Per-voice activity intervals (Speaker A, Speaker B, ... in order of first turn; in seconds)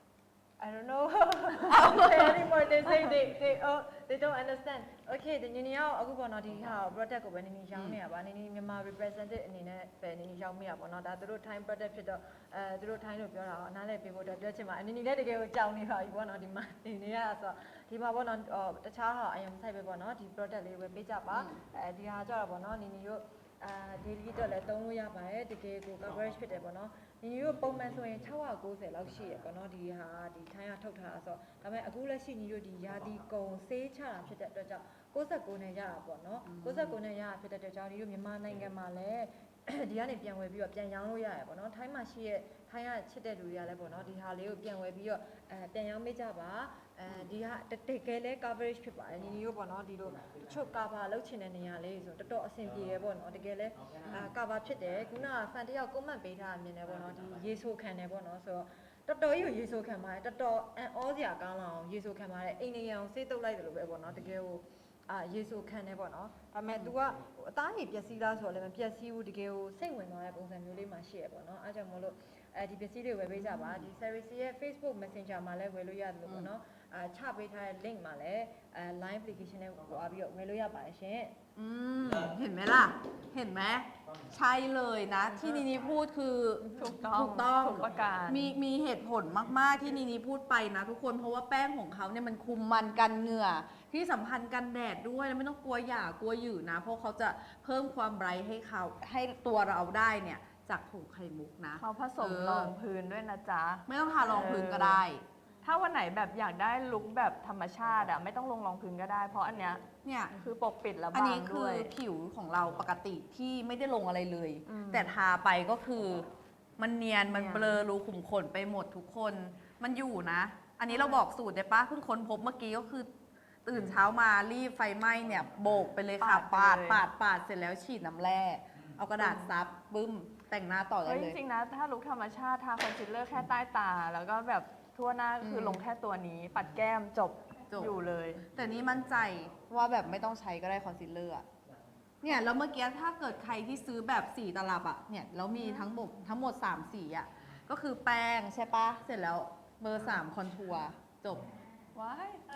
Speaker A: 0.6-81.4, 86.6-87.0
Speaker B: 1.7-2.4, 21.3-21.6, 36.5-37.0, 81.6-102.7, 103.9-105.2, 110.0-110.4, 111.1-116.3, 116.8-123.1, 123.7-131.4, 135.4-135.8, 137.7-141.5, 142.2-151.5
Speaker C: 86.8-88.5, 101.8-105.0, 105.6-111.9, 114.7-115.2, 117.3-117.8, 120.9-121.2, 126.2-127.0, 129.2-129.5, 131.0-138.4, 145.5-145.9, 151.9-152.4